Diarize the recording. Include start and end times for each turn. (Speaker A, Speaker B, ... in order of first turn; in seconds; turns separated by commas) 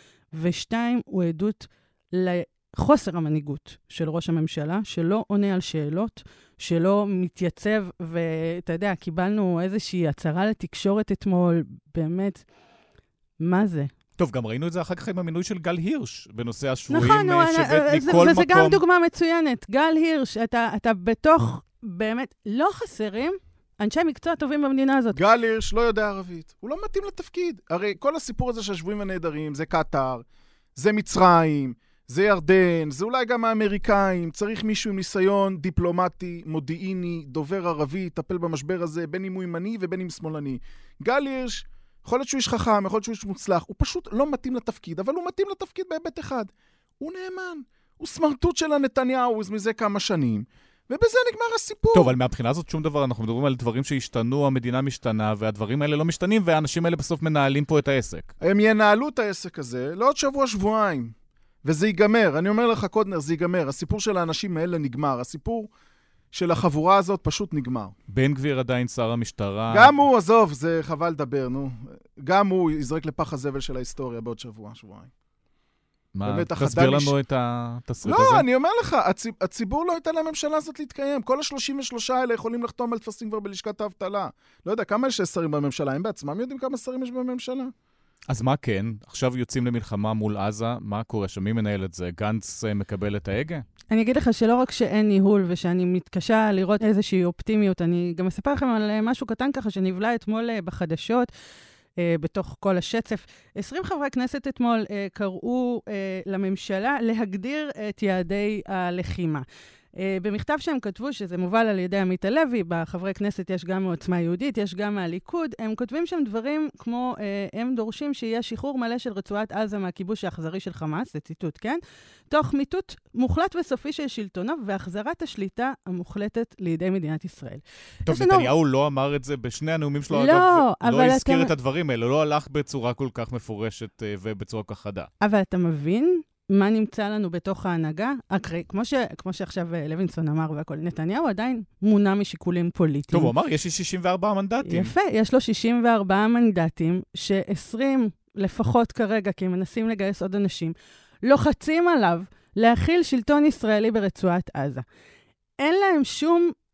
Speaker A: 0.3-12.4, Speaker A: 13.4-13.9, Speaker B: 14.2-18.8, Speaker A: 16.9-25.2, Speaker C: 25.1-30.2, Speaker C: 30.8-52.1, Speaker B: 51.9-58.3, Speaker C: 58.4-65.7, Speaker C: 66.3-67.9, Speaker B: 68.1-70.0, Speaker C: 69.7-75.1, Speaker B: 76.1-78.4, Speaker C: 76.2-77.1, Speaker C: 78.0-87.7, Speaker B: 88.3-93.6, Speaker A: 93.9-101.3, Speaker A: 102.0-128.5, Speaker B: 128.1-135.1, Speaker A: 130.1-131.5, Speaker A: 135.2-143.3, Speaker B: 143.1-144.9, Speaker A: 144.6-154.8, Speaker A: 155.6-156.5